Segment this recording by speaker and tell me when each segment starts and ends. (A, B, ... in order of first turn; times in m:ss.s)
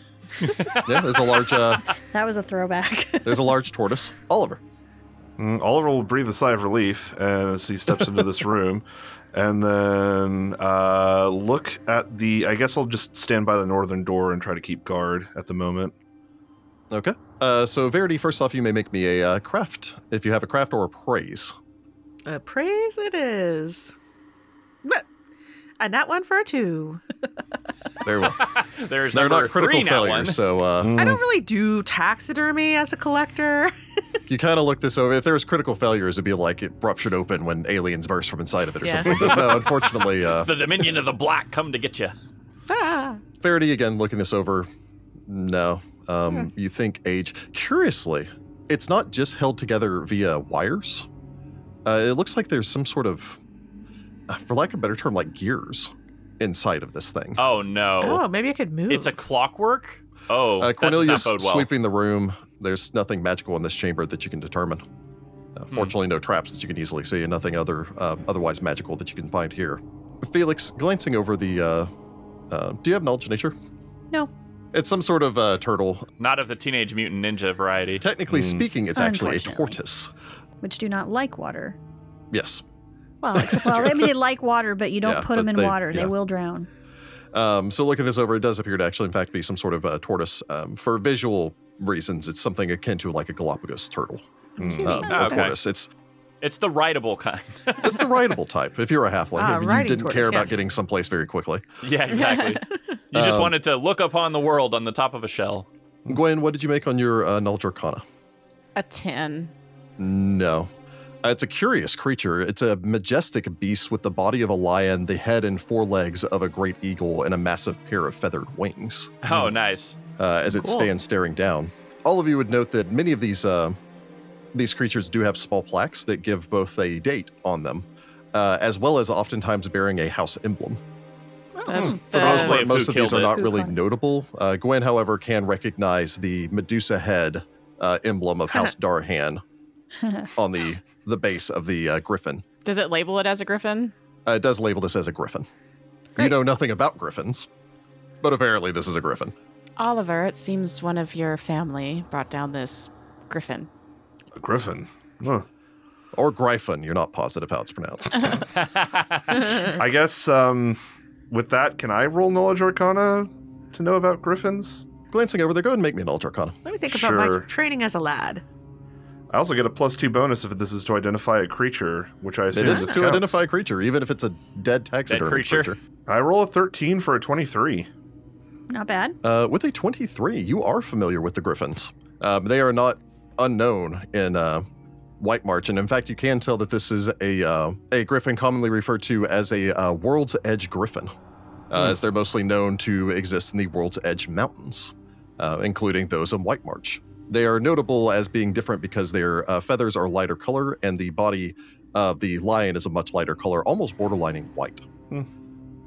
0:00.4-0:00.8 A
0:00.5-0:00.8 B
0:00.8-0:01.9 C
0:02.1-0:03.5 A
0:03.2-0:04.6 C
0:05.4-0:15.9 D
0:16.9-0:21.5 C
0:22.2-0:23.9 E
0:25.8-0:27.0 E
0:28.0-0:28.4 C
0:28.4-0:30.4 B
0:29.1-0:31.0 C
0:30.8-0:31.2 D
0:30.9-0:33.7 E
0:34.3-0:40.5 C
0:38.8-0:39.3 E
0:40.0-0:42.1 B
0:42.7-0:43.2 E
0:43.4-0:44.7 C
0:45.3-0:51.1 C
0:51.8-0:53.4 C
0:54.3-0:57.4 C
0:57.4-0:58.2 B
0:58.0-0:59.2 E
0:58.9-1:01.7 B
1:00.6-1:04.8 C
1:05.6-1:11.9 C
1:12.5-1:13.5 C
1:14.7-1:16.1 C
1:16.2-1:18.0 B
1:18.0-1:20.1 C
1:18.3-1:18.6 D
1:18.9-1:19.8 A
1:20.6-1:21.8 A
1:22.3-1:22.6 C
1:23.2-1:24.1 E
1:23.5-1:26.7 A
1:23.6-1:23.9 C
1:25.0-1:26.1 C
1:27.3-1:34.2 C
1:34.6-1:35.0 D
1:34.8-1:35.9 C
1:34.8-1:35.1 E
1:34.8-1:35.3 A
1:35.1-1:35.6 B
1:36.4-1:38.1 B
1:37.8-1:41.6 C
1:39.4-1:40.6 E
1:41.8-1:45.7 B
1:43.1-1:43.5 C
1:46.1-1:48.0 C
1:48.8-1:49.5 F
1:50.0-1:50.7 C
1:51.2-1:59.1 C
1:59.2-2:00.0 B
2:00.2-2:03.8 C
2:00.5-2:00.9 E
2:04.5-2:10.8 C
2:11.6-2:12.0 E
2:11.6-2:12.6 F
2:12.0-2:19.4 C
2:12.1-2:13.5 B
2:13.4-2:13.7 A
2:20.4-2:22.4 C
2:22.6-2:23.9 F
2:24.2-2:25.5 C
2:26.2-2:27.5 C
2:28.2-2:29.3 C
2:29.8-2:33.7 F
2:34.3-2:35.5 D
2:36.1-2:38.4 C
2:38.5-2:39.6 B
2:39.7-2:44.8 D
2:45.1-2:46.6 C
2:46.6-2:48.4 E
2:46.9-2:47.5 D
2:49.3-2:53.4 D
2:52.5-2:55.8 C
2:55.1-2:55.7 B
2:56.1-2:57.9 D
2:58.7-2:59.2 A
2:59.2-3:04.6 C
3:05.2-3:11.1 C
3:11.7-3:24.9 C